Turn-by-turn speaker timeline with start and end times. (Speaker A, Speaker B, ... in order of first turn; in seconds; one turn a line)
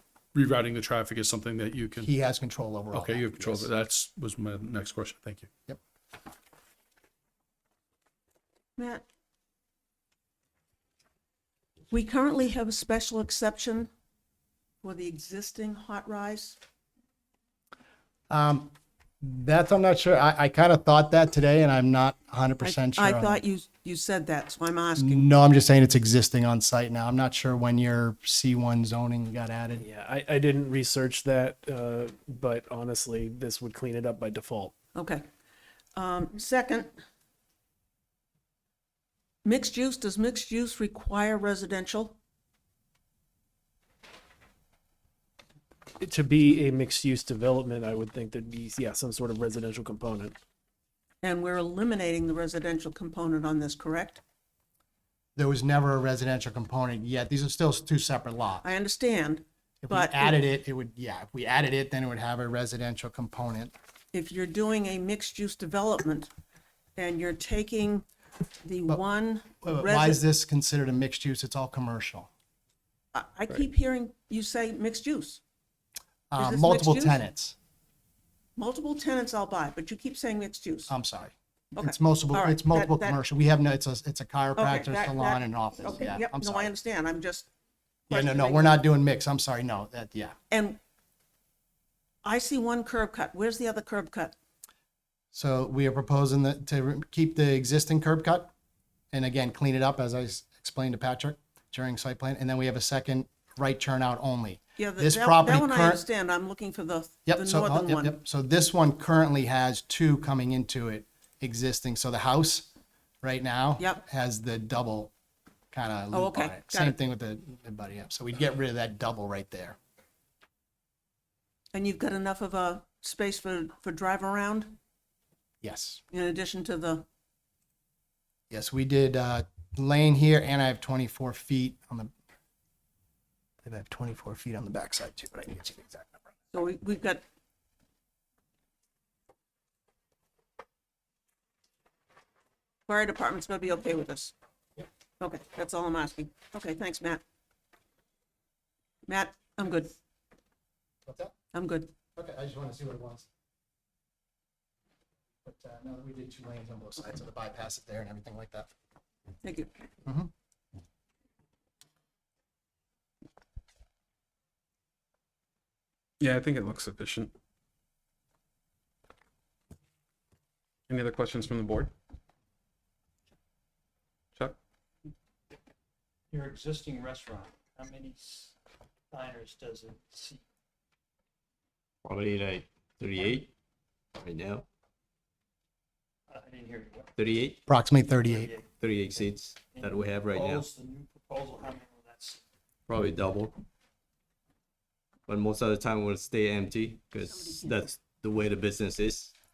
Speaker A: 0.3-2.1
Speaker B: 2.0-3.7
Speaker A: 2.9-5.5
Speaker C: 8.8-9.0
Speaker C: 11.9-13.9
Speaker C: 14.8-16.6
Speaker B: 18.3-23.4
Speaker C: 22.6-25.3
Speaker B: 25.0-29.8
Speaker D: 29.8-34.8
Speaker C: 35.0-35.2
Speaker C: 36.0-36.9
Speaker C: 39.4-42.2
Speaker D: 46.0-50.4
Speaker C: 51.2-54.2
Speaker B: 55.4-58.7
Speaker C: 58.6-60.4
Speaker B: 59.8-63.7
Speaker C: 64.1-66.3
Speaker C: 67.0-68.0
Speaker C: 68.6-70.2
Speaker B: 69.6-72.3
Speaker C: 73.1-75.4
Speaker B: 76.3-77.6
Speaker C: 76.4-77.2
Speaker C: 78.6-80.9
Speaker B: 80.9-86.7
Speaker C: 81.8-83.2
Speaker C: 84.6-87.5
Speaker C: 88.1-88.8
Speaker B: 88.1-90.4
Speaker C: 90.5-90.8
Speaker C: 92.2-94.3
Speaker B: 95.3-98.5
Speaker B: 99.1-106.1
Speaker C: 104.8-108.2
Speaker B: 107.3-112.7
Speaker B: 113.2-115.1
Speaker B: 115.7-119.8
Speaker C: 116.1-117.0
Speaker C: 121.7-124.8
Speaker B: 125.6-126.0
Speaker C: 126.1-127.1
Speaker B: 128.5-132.1
Speaker B: 133.6-136.2
Speaker C: 136.5-137.2
Speaker C: 142.9-144.3
Speaker C: 145.2-147.2
Speaker C: 149.1-149.9
Speaker B: 151.1-151.3
Speaker C: 151.5-151.9
Speaker B: 152.2-153.3
Speaker B: 155.4-158.7
Speaker C: 159.4-159.7
Speaker B: 160.1-160.3
Speaker E: 166.2-167.3
Speaker E: 170.9-171.9
Speaker F: 176.3-178.6
Speaker F: 179.1-180.4
Speaker G: 182.0-183.5
Speaker G: 184.2-184.7
Speaker F: 186.3-187.1
Speaker G: 187.2-187.6
Speaker B: 187.7-188.5
Speaker F: 188.2-188.7
Speaker G: 188.8-190.7
Speaker F: 189.7-192.4
Speaker G: 192.9-193.6
Speaker G: 195.3-199.3